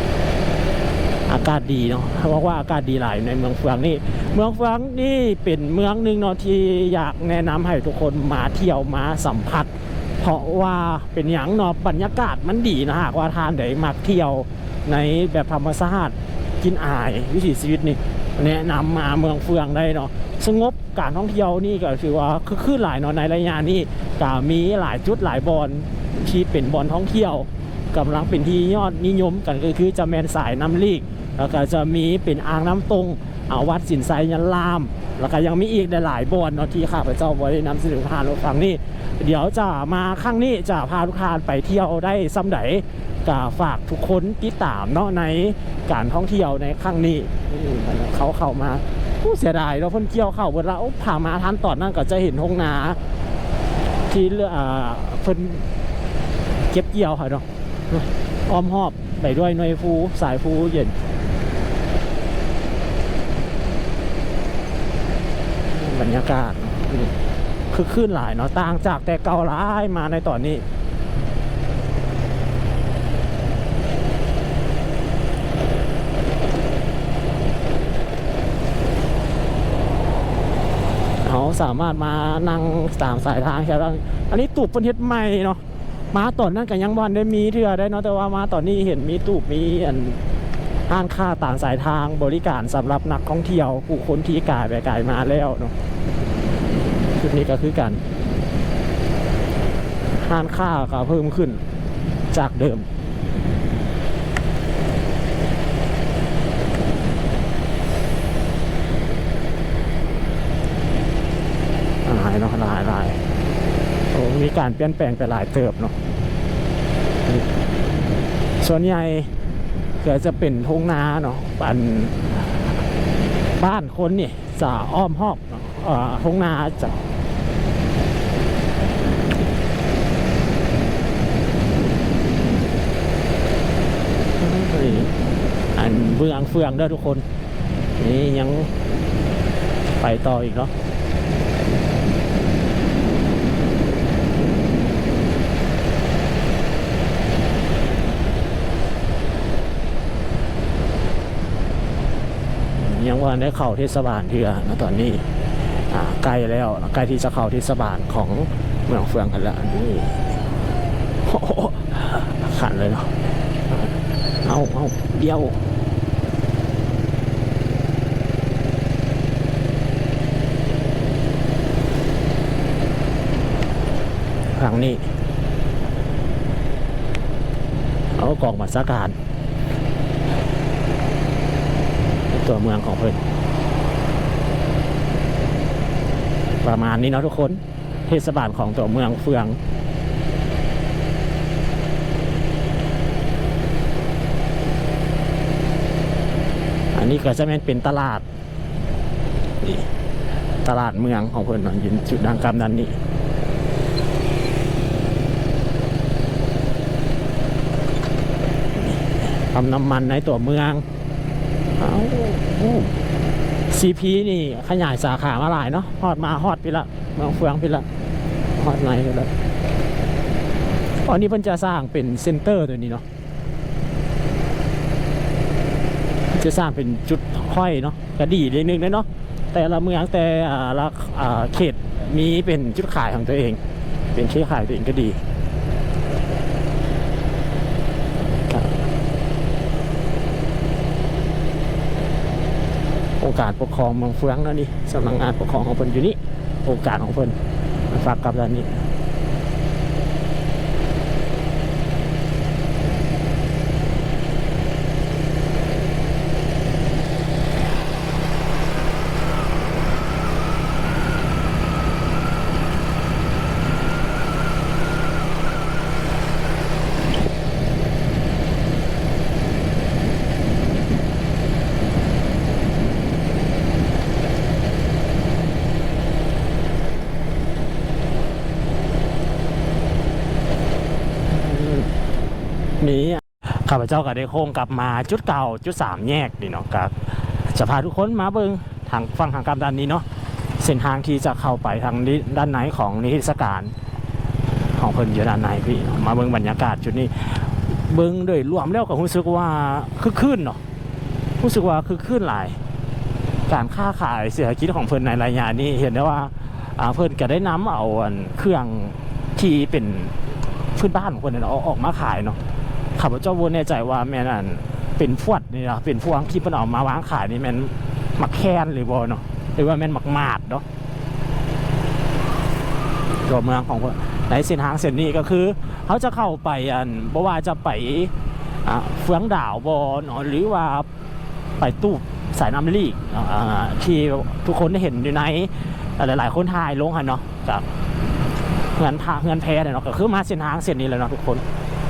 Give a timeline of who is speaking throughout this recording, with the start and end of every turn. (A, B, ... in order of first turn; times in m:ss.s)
0:01.3-0:53.0 A
0:54.1-0:55.7 A
0:56.7-1:01.0 A
1:05.7-1:07.1 A
1:07.7-1:10.6 A
1:21.2-1:25.6 A
1:26.1-1:30.2 A
1:30.9-1:35.8 A
1:37.2-1:38.0 A
1:40.2-1:41.6 A
1:42.3-1:42.9 A
1:52.0-1:53.2 A
1:54.1-1:56.0 A
1:58.6-1:59.3 A
2:00.0-2:02.6 A
2:03.5-2:07.1 A
2:14.4-2:15.1 A
2:15.7-2:17.3 A
2:18.0-2:18.7 A
2:20.0-2:20.7 A
2:32.8-2:35.3 A
2:35.9-2:40.3 A
2:41.2-2:45.6 A
2:54.5-2:55.0 A
2:58.2-2:59.2 A
3:02.3-3:03.2 A
3:06.6-3:09.6 A
3:16.9-3:18.2 A
3:19.6-3:19.9 A
3:20.6-3:23.0 A
3:28.8-3:30.8 A
3:31.8-3:33.0 A
3:33.7-3:37.9 A
3:38.5-3:39.3 A
3:41.0-3:43.0 A
3:46.3-3:53.6 A
3:54.1-3:55.2 A
3:58.5-3:58.7 A
4:03.2-4:08.9 A
4:41.3-4:41.9 A
4:42.8-4:50.0 A
4:50.6-4:53.7 A
4:54.6-5:00.6 A
5:01.4-5:02.6 A
5:03.5-5:10.2 A
5:10.7-5:12.4 A
5:13.0-5:20.6 A
5:23.2-5:28.1 A
5:28.6-5:30.9 A
5:31.6-5:37.7 A
5:38.7-5:41.4 A